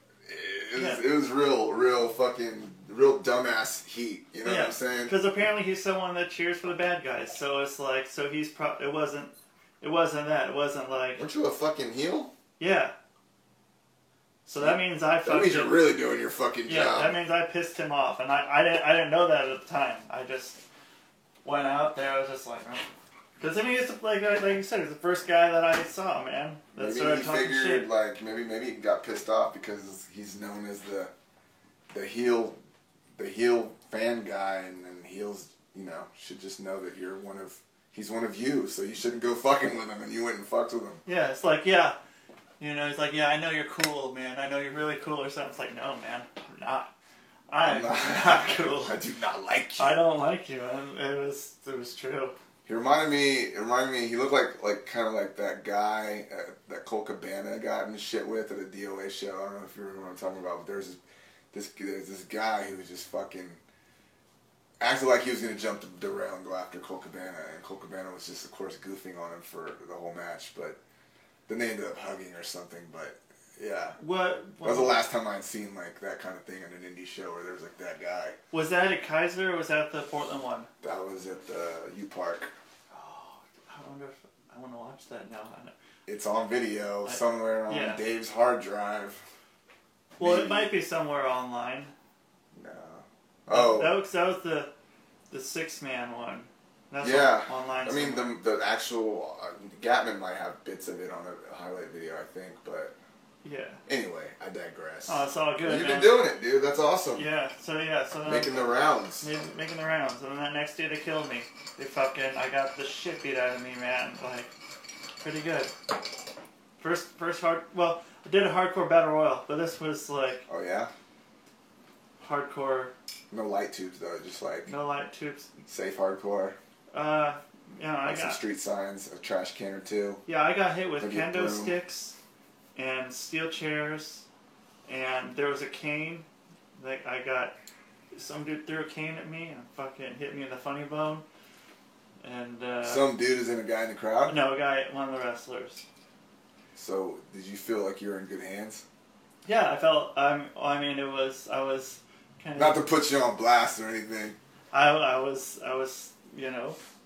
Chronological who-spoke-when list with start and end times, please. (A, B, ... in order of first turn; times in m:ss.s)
0:00.2-0:05.2 A
0:00.7-0:01.0 B
0:04.4-0:11.2 B
0:11.2-0:12.3 A
0:12.6-0:12.9 B
0:14.4-0:15.8 B
0:14.6-0:17.1 A
0:16.7-0:20.6 B
0:21.4-0:22.8 B
0:23.4-0:27.9 B
0:26.8-0:31.1 A
0:31.9-0:32.6 A
0:33.2-0:41.0 A
0:41.0-0:42.0 B
0:42.6-0:46.9 B
0:47.5-0:49.0 B
0:47.6-0:50.0 A
0:49.8-0:52.3 B
0:52.6-1:01.0 A
1:01.5-1:03.6 A
1:04.8-1:10.8 A
1:11.5-1:14.0 A
1:14.0-1:15.0 B
1:14.6-1:18.4 A
1:18.5-1:20.7 B
1:20.8-1:22.5 A
1:22.9-1:25.7 B
1:26.1-1:29.2 A
1:27.0-1:28.0 B
1:30.2-1:30.7 A
1:30.2-1:31.9 B
1:32.5-1:34.0 A
1:33.5-1:34.7 B
1:35.3-1:38.4 B
1:37.0-1:42.9 A
1:43.4-1:43.8 B
1:43.9-1:47.3 A
1:45.1-1:46.2 B
1:47.1-1:48.7 B
1:48.2-1:49.3 A
1:49.2-1:54.5 B
1:55.2-1:55.7 B
1:56.8-2:00.4 B
2:00.5-2:00.9 A
2:02.2-2:02.9 B
2:03.3-2:04.7 A
2:04.7-2:05.5 B
2:05.6-2:06.6 A
2:06.9-2:08.4 B
2:08.0-2:10.2 A
2:10.3-2:12.2 B
2:11.0-2:11.8 A
2:12.8-2:14.2 B
2:14.9-2:17.5 B
2:18.1-2:21.2 B
2:22.2-2:23.1 B
2:22.8-2:24.4 A
2:24.2-2:25.8 B
2:26.7-2:28.8 A
2:29.4-2:32.8 B
2:32.6-2:34.4 A
2:34.7-2:36.8 B